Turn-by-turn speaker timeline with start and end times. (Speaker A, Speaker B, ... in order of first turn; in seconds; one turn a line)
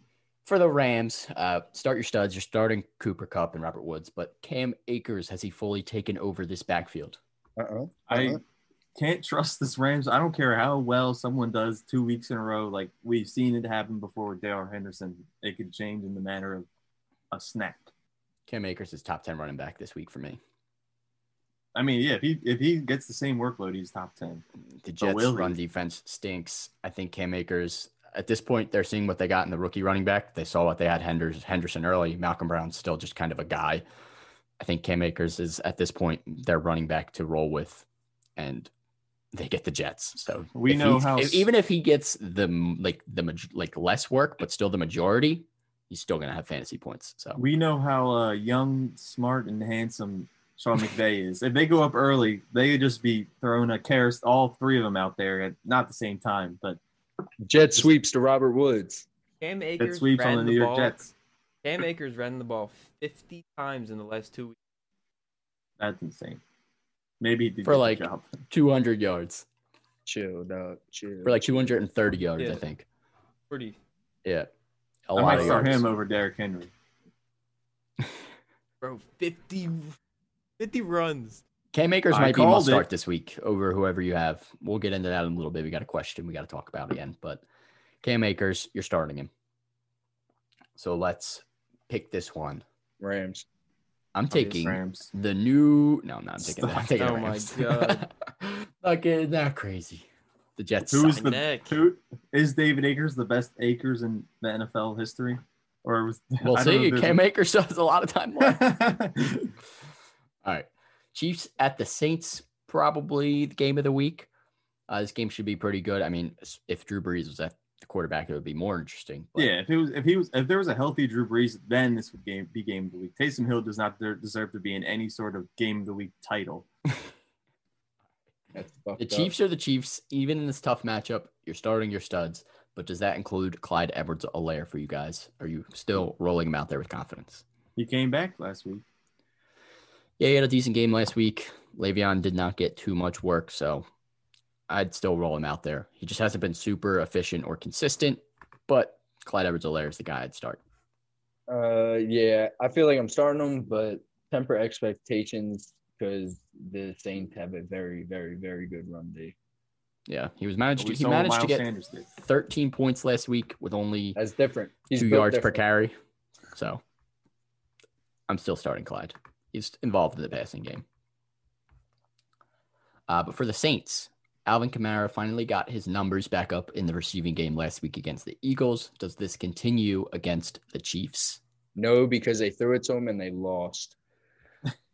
Speaker A: 0.5-7.2
Speaker B: 7.6-8.4
Speaker C: 8.1-8.4
Speaker C: 9.0-16.7
Speaker C: 17.3-17.9
Speaker A: 18.5-20.4
Speaker C: 21.8-24.4
Speaker A: 24.8-33.8
Speaker C: 25.0-25.6
Speaker A: 34.6-37.9
Speaker A: 38.4-38.7
Speaker A: 39.3-47.4
Speaker C: 40.5-41.5
Speaker C: 47.4-56.8
Speaker B: 57.4-59.1
Speaker D: 59.4-61.1
Speaker C: 59.8-61.1
Speaker D: 61.6-64.6
Speaker C: 65.8-66.4
Speaker C: 67.2-68.3
Speaker A: 67.6-69.5
Speaker B: 70.1-71.8
Speaker A: 71.2-72.8
Speaker D: 73.5-73.8
Speaker A: 74.2-74.5
Speaker A: 75.1-75.9
Speaker C: 75.2-76.7
Speaker B: 75.3-75.6
Speaker D: 78.8-80.0
Speaker D: 80.6-81.4
Speaker A: 81.7-87.4
Speaker C: 82.1-82.9
Speaker A: 88.0-89.3
Speaker A: 90.8-92.6
Speaker B: 93.0-93.5
Speaker A: 94.2-100.1
Speaker C: 94.3-95.1
Speaker D: 97.0-98.0
Speaker A: 100.6-101.3
Speaker C: 100.9-107.2
Speaker D: 101.1-101.8
Speaker A: 106.4-108.6
Speaker C: 108.4-109.5
Speaker A: 110.4-114.3
Speaker A: 114.9-119.5
Speaker C: 119.4-126.7
Speaker B: 128.5-129.3
Speaker A: 129.0-137.4
Speaker C: 137.8-138.8
Speaker A: 140.2-143.9
Speaker A: 144.7-150.6
Speaker B: 151.5-159.3
Speaker A: 160.1-164.2
Speaker C: 160.8-162.1
Speaker B: 164.2-165.6
Speaker A: 164.9-165.9
Speaker A: 166.5-166.8
Speaker A: 168.3-170.8
Speaker A: 173.1-181.4
Speaker B: 181.8-184.0